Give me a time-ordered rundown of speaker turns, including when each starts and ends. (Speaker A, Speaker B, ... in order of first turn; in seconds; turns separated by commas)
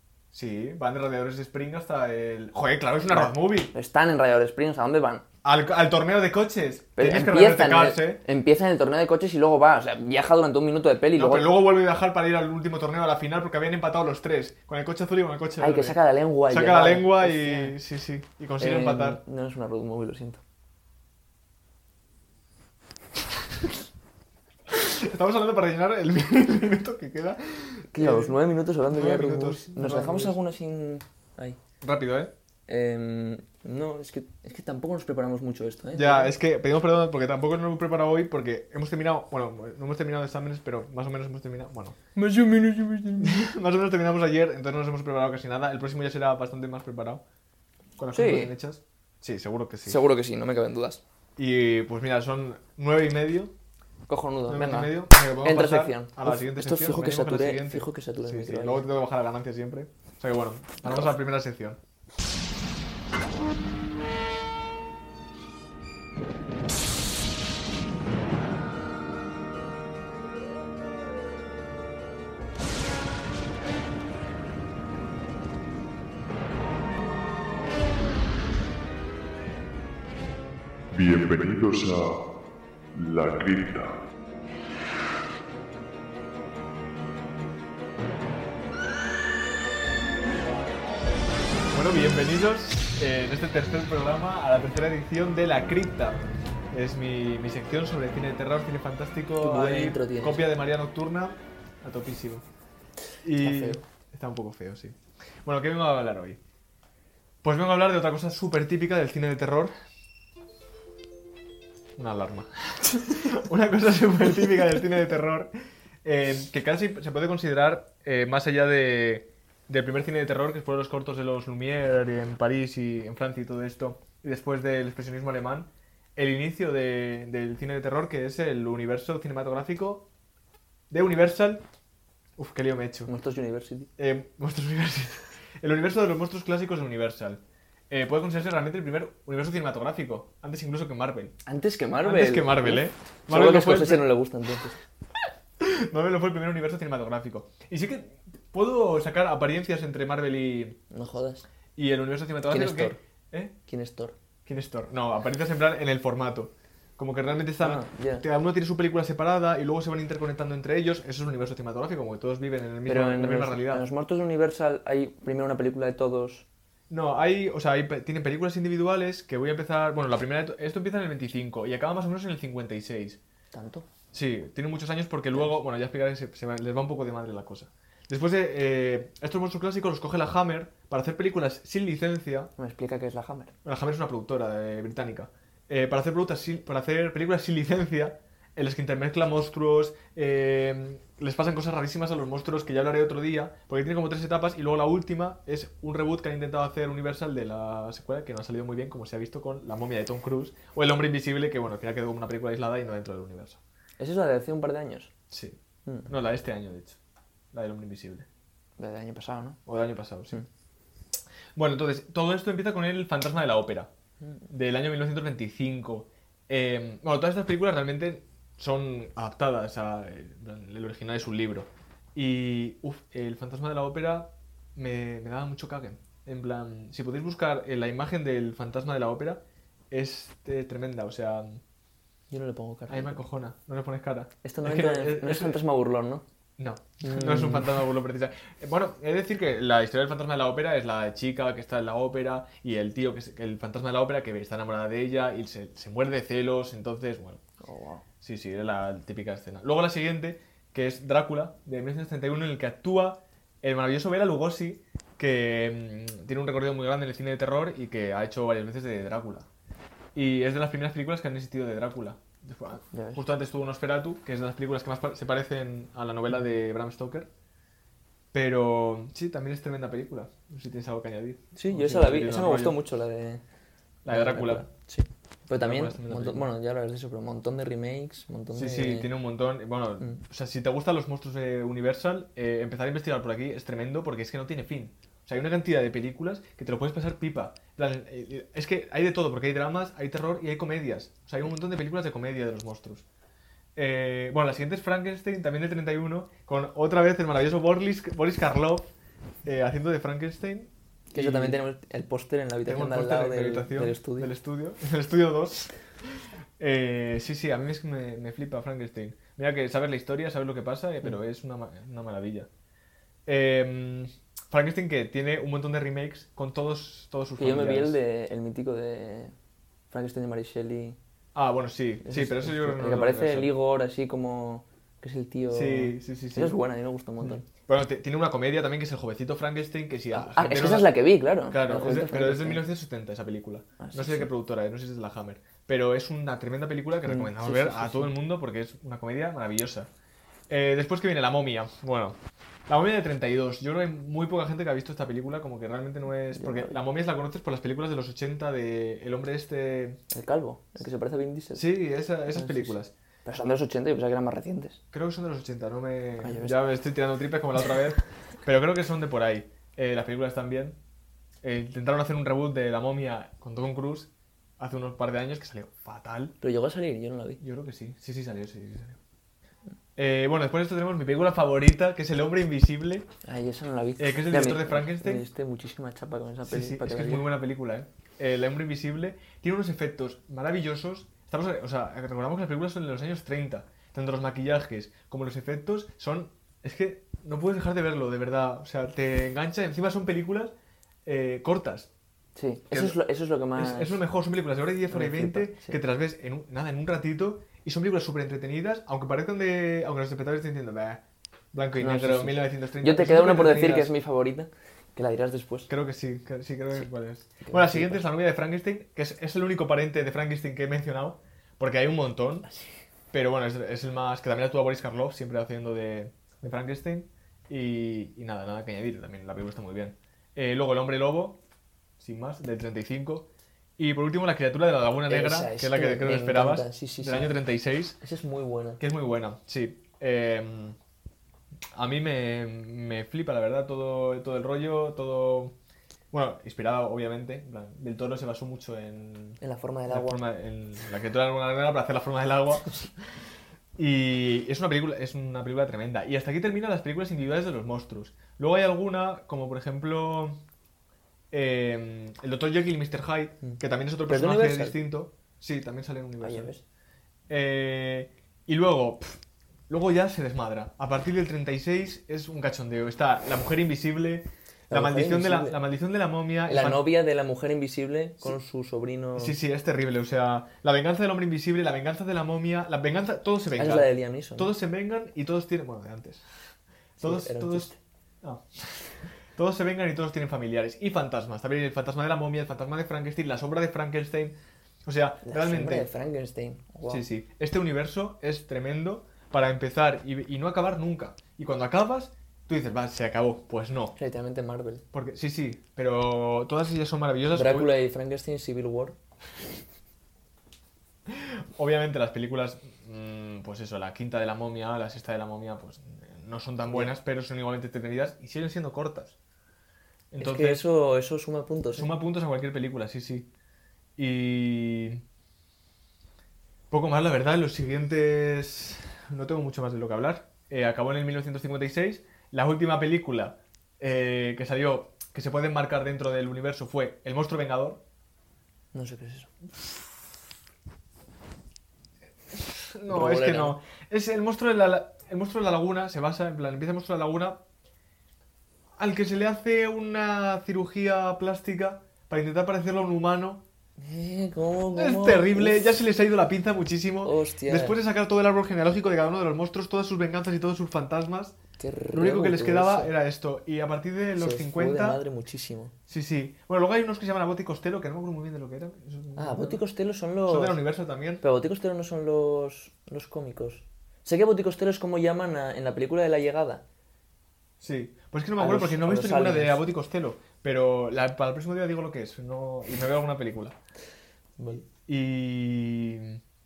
Speaker A: 0.3-3.7, Speaker B: 3.1-5.2, Speaker A: 5.4-8.2, Speaker B: 7.0-11.5, Speaker A: 11.2-16.0, Speaker B: 15.6-17.8, Speaker A: 16.5-19.2, Speaker B: 18.6-20.4, Speaker A: 24.7-28.4, Speaker B: 27.9-31.6, Speaker A: 28.9-30.4, Speaker A: 31.8-32.3, Speaker B: 32.7-36.3, Speaker A: 35.9-42.0, Speaker B: 42.1-43.4, Speaker A: 43.2-47.2, Speaker A: 48.0-50.0, Speaker B: 48.1-48.5, Speaker B: 49.9-51.0, Speaker A: 51.4-53.5, Speaker B: 54.1-58.9, Speaker A: 54.5-61.8, Speaker C: 80.9-82.3, Speaker C: 83.0-84.0, Speaker A: 91.7-102.5, Speaker B: 99.4-100.5, Speaker A: 103.2-106.4, Speaker B: 103.4-103.8, Speaker A: 107.4-109.7, Speaker A: 112.0-115.5, Speaker A: 116.0-130.1, Speaker A: 130.9-131.7, Speaker A: 132.4-133.1, Speaker B: 133.1-133.9, Speaker A: 134.0-141.3, Speaker B: 141.5-144.8, Speaker A: 142.0-144.1, Speaker A: 145.6-150.8, Speaker B: 150.9-151.5, Speaker A: 151.8-153.5, Speaker B: 152.5-153.0, Speaker B: 153.7-154.2, Speaker A: 154.5-163.8, Speaker B: 157.6-158.2, Speaker B: 162.9-166.5, Speaker A: 166.9-173.2, Speaker B: 173.5-173.9, Speaker A: 174.1-182.5, Speaker B: 182.6-183.5, Speaker A: 183.7-203.6, Speaker B: 204.0-205.1, Speaker A: 205.3-207.0, Speaker A: 207.5-208.3, Speaker B: 208.8-209.6, Speaker A: 209.7-210.4, Speaker A: 211.6-213.9, Speaker A: 214.5-231.6, Speaker B: 232.3-233.2, Speaker A: 232.9-235.6, Speaker B: 234.4-236.2, Speaker A: 236.6-247.4, Speaker B: 237.0-237.7, Speaker B: 247.6-248.1, Speaker A: 248.2-259.5, Speaker A: 260.1-267.3, Speaker B: 262.9-263.2, Speaker A: 268.3-272.8, Speaker B: 271.6-273.4, Speaker A: 274.1-274.7, Speaker B: 274.1-279.1, Speaker A: 275.5-276.5, Speaker A: 278.6-293.1, Speaker A: 293.8-298.9, Speaker A: 299.4-301.6, Speaker B: 301.1-304.3, Speaker A: 302.7-312.5, Speaker A: 313.3-318.0, Speaker B: 317.4-319.3, Speaker B: 319.9-321.0, Speaker A: 321.4-323.5, Speaker B: 322.0-327.4, Speaker A: 325.5-326.6, Speaker A: 327.2-330.9, Speaker B: 330.1-332.6, Speaker A: 331.5-339.9, Speaker B: 333.8-334.3, Speaker B: 337.1-338.1, Speaker A: 340.5-342.2, Speaker A: 342.7-350.0, Speaker B: 346.3-346.8, Speaker B: 350.1-351.8, Speaker A: 351.6-352.9, Speaker B: 352.3-354.8, Speaker A: 354.9-360.8, Speaker B: 356.2-356.6, Speaker A: 361.4-366.4, Speaker B: 366.4-367.4, Speaker A: 367.4-369.0, Speaker A: 370.0-373.1, Speaker B: 373.2-377.3, Speaker A: 374.0-375.2, Speaker A: 376.5-390.5, Speaker A: 391.1-391.9, Speaker B: 392.4-394.0, Speaker A: 392.7-393.0, Speaker A: 393.6-401.0, Speaker B: 394.9-395.8, Speaker A: 401.5-403.9, Speaker B: 401.8-405.7, Speaker A: 405.7-412.5, Speaker B: 407.4-408.0, Speaker B: 412.5-412.7, Speaker A: 413.1-421.4, Speaker A: 422.0-423.3, Speaker A: 423.8-428.0, Speaker B: 425.1-427.4, Speaker B: 428.0-428.8, Speaker A: 428.8-430.8, Speaker A: 431.7-435.6, Speaker A: 436.1-442.9, Speaker B: 439.4-440.2, Speaker A: 443.8-450.4, Speaker A: 451.3-456.5, Speaker B: 453.4-454.8, Speaker B: 456.2-456.6, Speaker A: 457.3-466.8, Speaker B: 464.7-465.6, Speaker B: 466.5-469.4, Speaker A: 469.2-485.9, Speaker B: 473.6-474.5, Speaker B: 477.0-477.8, Speaker B: 485.2-487.1, Speaker A: 486.9-494.0, Speaker B: 494.0-494.8, Speaker A: 494.9-497.7, Speaker B: 497.3-499.0, Speaker A: 501.1-509.2, Speaker A: 510.1-510.6, Speaker B: 510.2-511.9, Speaker A: 511.7-513.3, Speaker A: 514.0-515.0, Speaker A: 516.7-527.8, Speaker B: 528.7-529.3, Speaker A: 532.3-537.4, Speaker B: 532.9-533.6, Speaker A: 538.8-543.4, Speaker B: 543.8-545.7, Speaker A: 544.8-551.4, Speaker B: 547.0-547.8, Speaker B: 551.6-552.9, Speaker A: 551.9-555.0, Speaker B: 554.2-555.7, Speaker A: 555.9-559.6, Speaker B: 559.2-560.6, Speaker A: 560.3-561.2, Speaker B: 561.2-566.6, Speaker A: 567.6-573.6, Speaker B: 568.4-569.6, Speaker B: 574.4-574.6, Speaker A: 574.8-576.2